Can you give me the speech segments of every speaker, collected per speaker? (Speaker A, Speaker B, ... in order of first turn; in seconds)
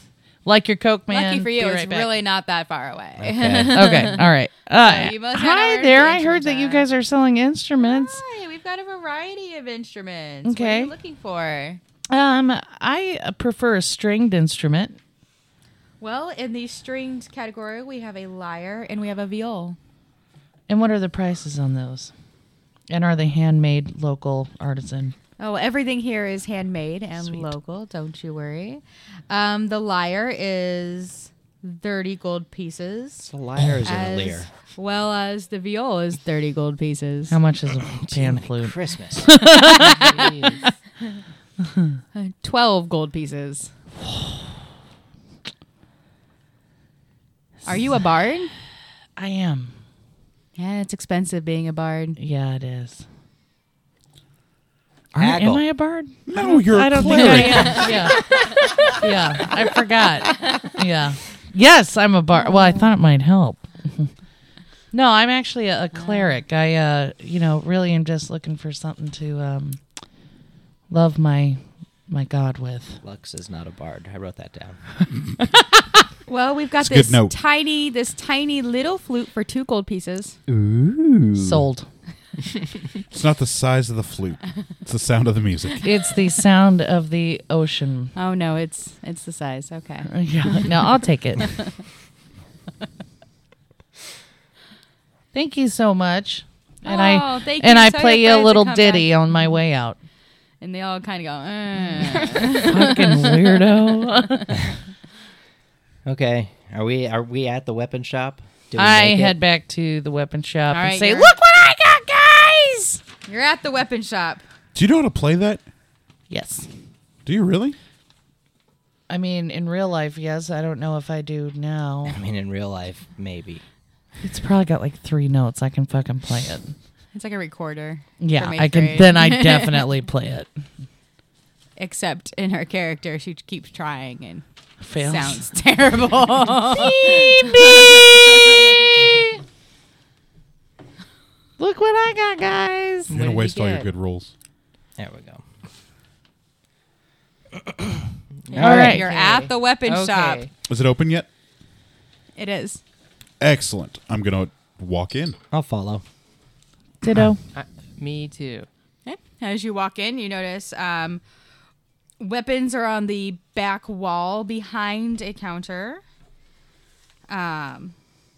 Speaker A: 0.5-2.1, 3.7-8.2, 10.4-10.9, 12.1-15.0, 20.7-22.1, 22.9-25.1, 27.2-27.5, 37.3-40.1, 49.2-49.7, 52.2-53.0, 55.1-58.3, 58.9-64.1, 64.9-69.8, 70.9-73.0, 81.4-81.9, 85.8-88.1, 90.1-91.6, 95.3-100.0, 102.6-104.6, 108.8-113.0, 116.3-116.7, 119.1-122.2, 124.2-126.8, 128.2-130.5, 134.8-135.5, 136.7-138.7, 141.6-143.1, 148.6-149.1, 157.0-157.4
Speaker B: 1.1-6.9, 7.8-11.8, 16.0-19.8, 25.4-33.3, 33.8-37.4, 39.7-40.5, 42.1-43.7, 47.6-48.5, 50.6-52.2, 57.1-58.9, 62.4-62.8, 66.0-66.4, 76.3-80.4, 88.2-90.7, 96.8-99.1, 100.6-103.6, 110.7-111.4, 113.3-114.4, 127.1-129.8, 131.8-134.4, 135.0-138.9, 148.5-150.4, 152.3-152.8, 159.1-161.2, 162.2-166.0, 167.3-167.9
Speaker C: 3.2-3.8, 33.2-34.5, 37.8-39.4, 55.2-55.7, 58.1-58.9, 73.0-74.8, 80.5-81.6, 106.0-109.4, 122.1-123.6, 145.0-145.4, 147.6-148.0, 148.6-149.0, 155.5-156.0
Speaker D: 39.9-40.7, 143.1-143.9, 148.4-150.5, 157.5-158.7
Speaker E: 56.3-57.9, 76.8-77.3, 83.1-85.8, 114.8-115.6, 117.2-117.8, 143.1-144.3, 150.7-151.3, 153.4-155.4, 157.1-157.3